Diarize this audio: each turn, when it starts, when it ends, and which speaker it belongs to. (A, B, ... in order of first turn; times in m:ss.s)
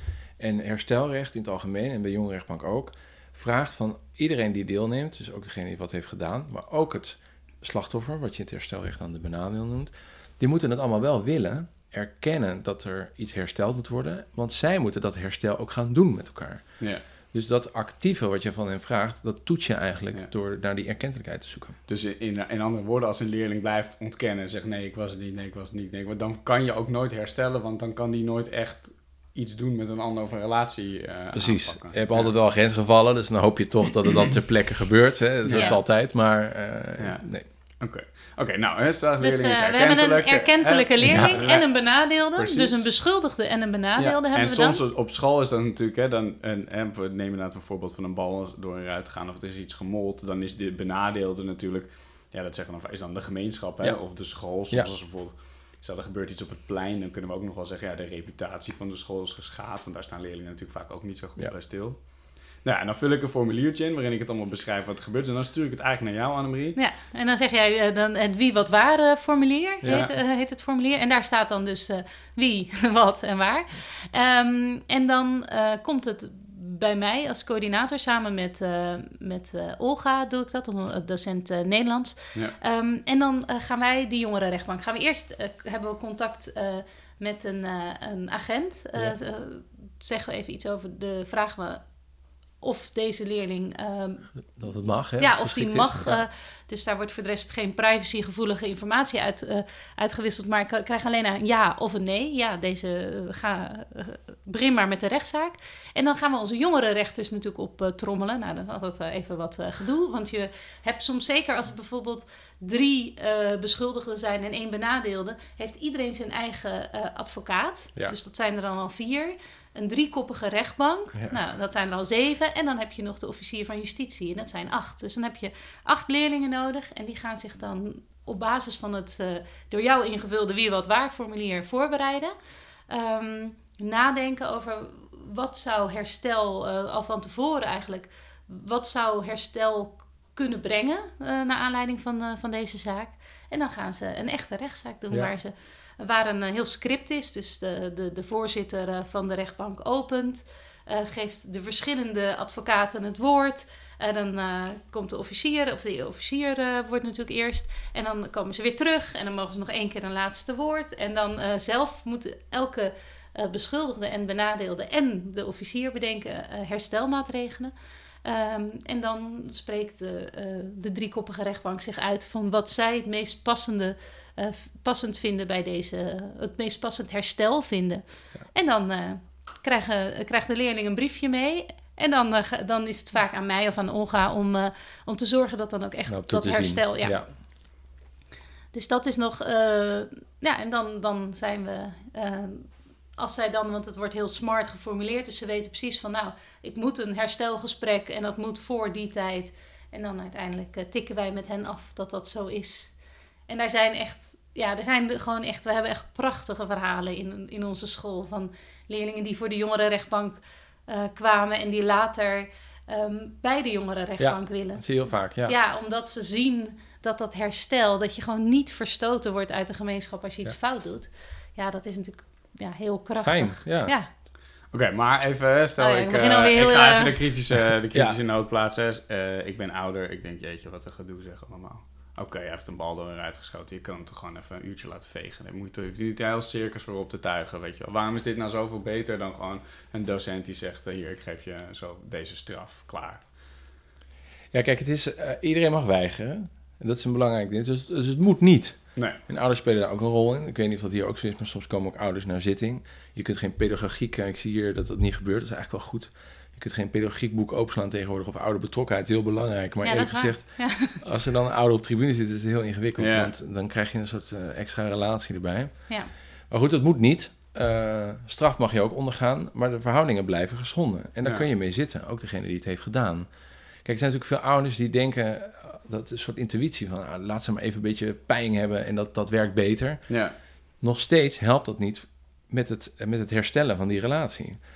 0:00.4-0:21.8 A
0:21.9-0:32.3 B
0:31.3-0:37.4 A
0:35.4-0:35.8 B
0:37.0-0:42.9 B
0:39.2-0:44.8 C
0:41.0-0:41.4 A
0:44.0-1:06.8 B
1:06.8-1:31.8 C
1:09.8-1:10.1 A
1:09.9-1:10.1 B
1:32.6-1:34.3 C
1:34.6-1:36.2 A
1:34.8-2:12.3 C
2:01.1-2:01.4 A
2:12.9-2:47.7 C
2:48.2-3:07.2 C
3:06.1-3:07.3 A
3:08.7-3:22.9 C
3:23.5-3:34.9 C
3:34.2-3:35.5 A
3:35.4-3:44.1 C
3:43.2-3:43.9 A
3:44.7-4:03.3 B
3:45.8-3:47.2 C
4:04.5-4:26.0 A
4:19.8-4:21.0 C
4:23.0-4:23.3 B
4:26.5-4:33.3 A
4:33.8-4:40.3 A
4:40.1-4:40.3 B
4:40.8-4:44.6 A